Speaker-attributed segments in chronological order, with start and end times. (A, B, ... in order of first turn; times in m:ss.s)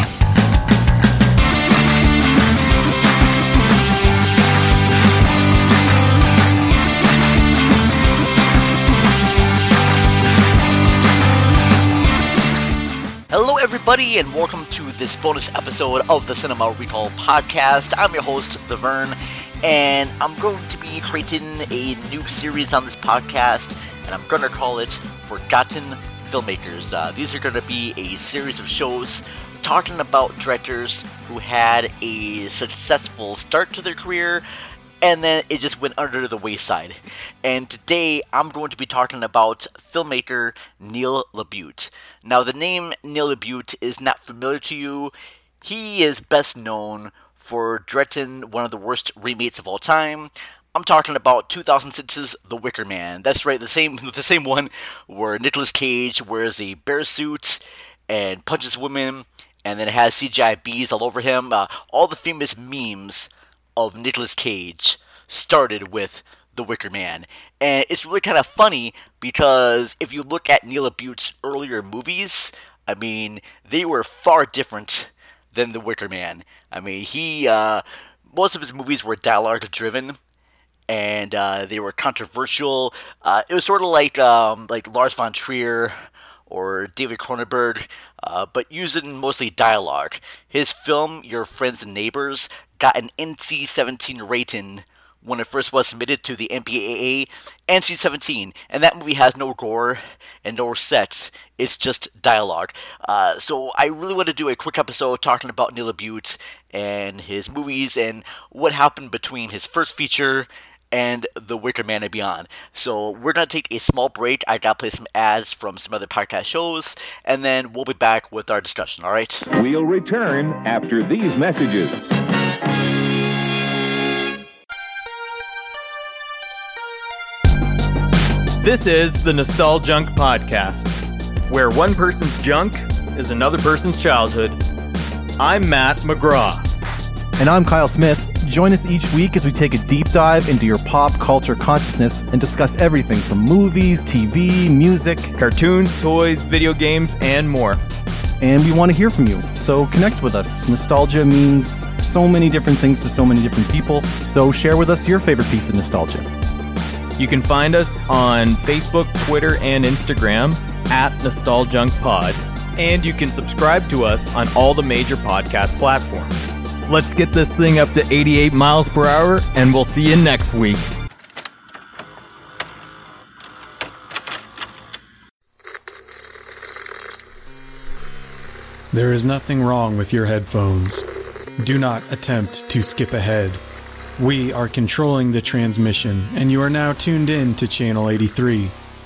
0:13.3-0:34.4 A
0:35.0-1:20.2 A
1:20.9-1:26.0 A
1:26.5-1:59.5 A
1:59.5-2:02.0 B
2:08.6-2:10.9 C
2:11.5-2:14.6 C
2:15.4-2:16.6 C
2:17.4-2:25.3 D
2:25.3-2:27.8 C
2:28.4-2:36.3 D
2:37.2-2:50.8 C
2:58.9-3:01.0 E
3:01.6-3:03.6 E
3:04.2-3:08.7 E